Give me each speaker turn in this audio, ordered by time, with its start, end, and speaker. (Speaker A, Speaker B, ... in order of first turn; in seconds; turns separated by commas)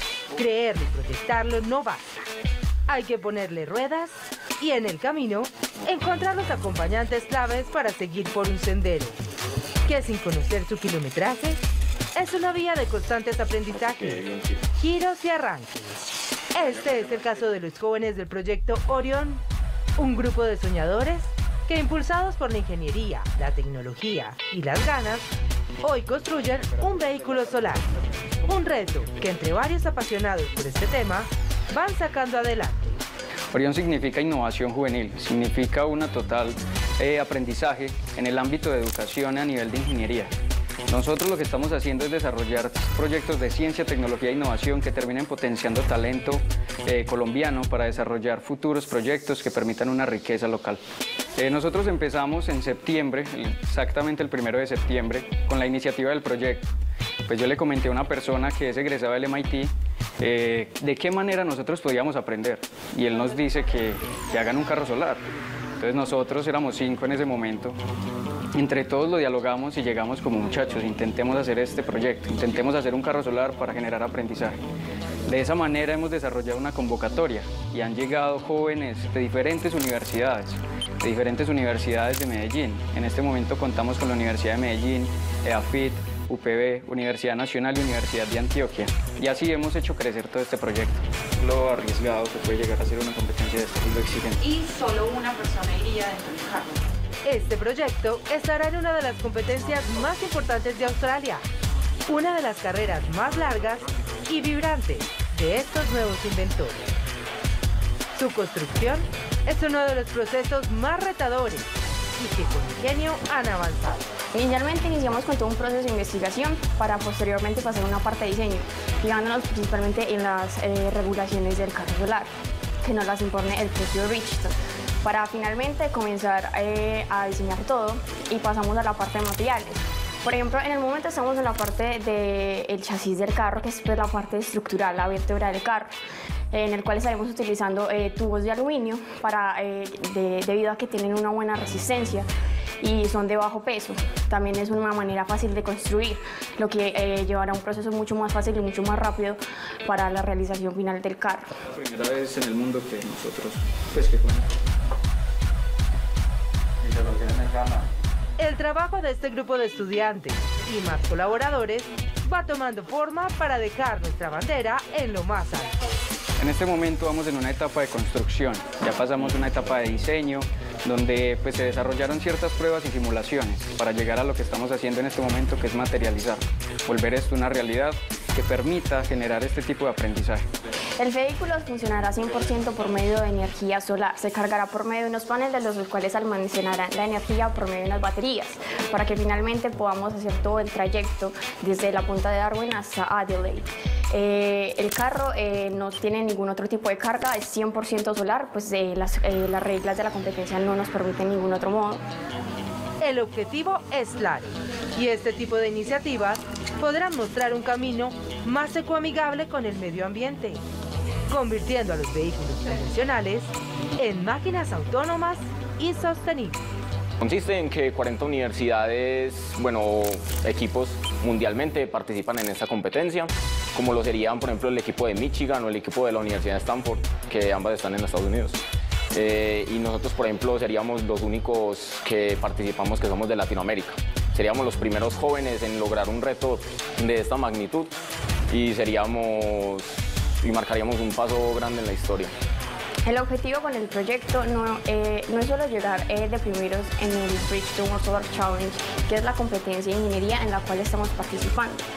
Speaker A: 0.3-2.1, Speaker A: 2.9-9.2, Speaker A: 9.8-11.6, Speaker A: 12.1-16.0, Speaker A: 16.5-19.4, Speaker A: 20.0-25.2, Speaker A: 25.8-27.9, Speaker A: 28.4-33.0, Speaker B: 33.5-40.3, Speaker B: 40.9-50.8, Speaker B: 51.4-56.6, Speaker B: 57.2-67.8, Speaker B: 68.5-74.6, Speaker B: 75.2-94.6, Speaker C: 94.7-96.7, Speaker A: 97.2-101.4, Speaker A: 102.0-106.9, Speaker A: 108.1-114.1, Speaker D: 114.3-122.3, Speaker D: 122.8-135.9, Speaker D: 136.5-142.3, Speaker D: 142.8-151.5, Speaker B: 151.7-154.5, Speaker B: 156.8-157.8, Speaker A: 158.4-165.8, Speaker B: 166.4-180.4, Speaker D: 181.0-202.0, Speaker A: 203.0-210.6, Speaker A: 211.3-216.6, Speaker E: 217.2-228.6, Speaker E: 229.1-237.9, Speaker E: 238.5-242.3, Speaker D: 243.1-251.8